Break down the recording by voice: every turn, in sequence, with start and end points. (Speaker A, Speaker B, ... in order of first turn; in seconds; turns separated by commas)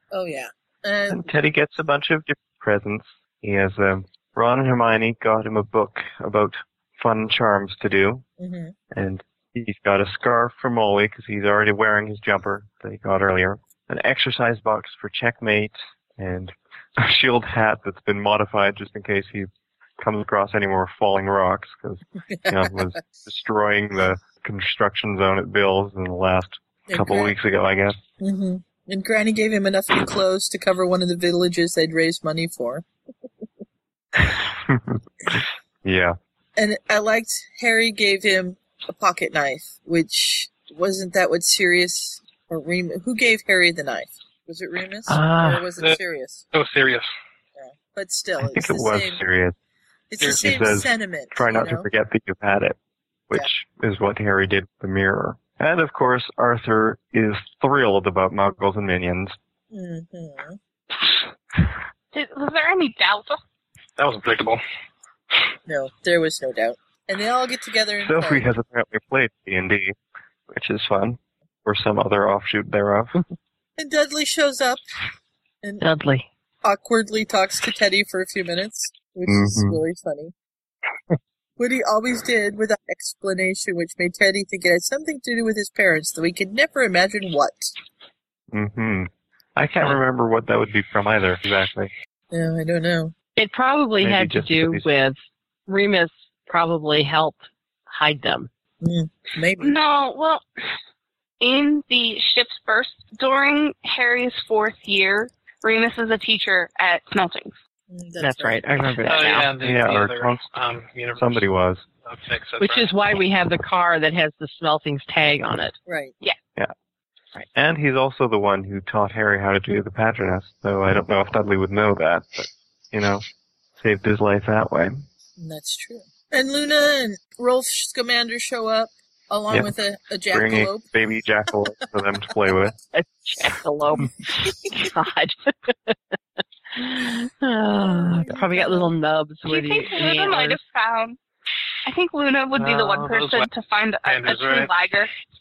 Speaker A: 0.1-1.3, Speaker B: 1.1-8.2, Speaker A: 8.4-8.7, Speaker B: 8.9-28.0, Speaker A: 22.4-22.7, Speaker A: 26.9-27.4, Speaker A: 28.2-32.8, Speaker B: 34.2-36.1, Speaker A: 36.5-46.4, Speaker C: 45.1-45.5, Speaker D: 45.3-46.0, Speaker D: 46.5-47.1, Speaker A: 47.5-49.2, Speaker B: 48.4-49.5, Speaker A: 50.1-51.9, Speaker B: 50.2-52.8, Speaker B: 53.3-59.4, Speaker A: 59.7-60.6, Speaker E: 62.1-63.4, Speaker D: 64.0-64.6, Speaker A: 65.7-68.5, Speaker B: 68.0-70.0, Speaker B: 70.5-73.1, Speaker A: 73.8-74.8, Speaker C: 75.8-76.3, Speaker A: 76.6-80.3, Speaker B: 79.2-79.8, Speaker A: 81.6-87.7, Speaker B: 88.5-91.9, Speaker A: 92.3-93.1, Speaker C: 93.3-98.5, Speaker B: 94.0-94.9, Speaker A: 98.8-99.8, Speaker E: 99.6-100.4, Speaker E: 101.4-107.5, Speaker A: 107.9-108.6, Speaker C: 108.2-109.5, Speaker D: 109.0-111.4, Speaker B: 109.6-110.5, Speaker B: 111.2-111.8, Speaker D: 112.0-113.2, Speaker C: 112.6-115.8, Speaker A: 115.9-116.1, Speaker B: 117.5-123.2, Speaker B: 123.8-125.0, Speaker A: 125.4-130.8, Speaker B: 130.3-132.7, Speaker C: 132.9-135.9, Speaker C: 136.7-140.6, Speaker A: 137.8-138.9, Speaker E: 139.4-141.2, Speaker E: 141.8-145.1, Speaker D: 142.6-143.5, Speaker D: 144.1-144.7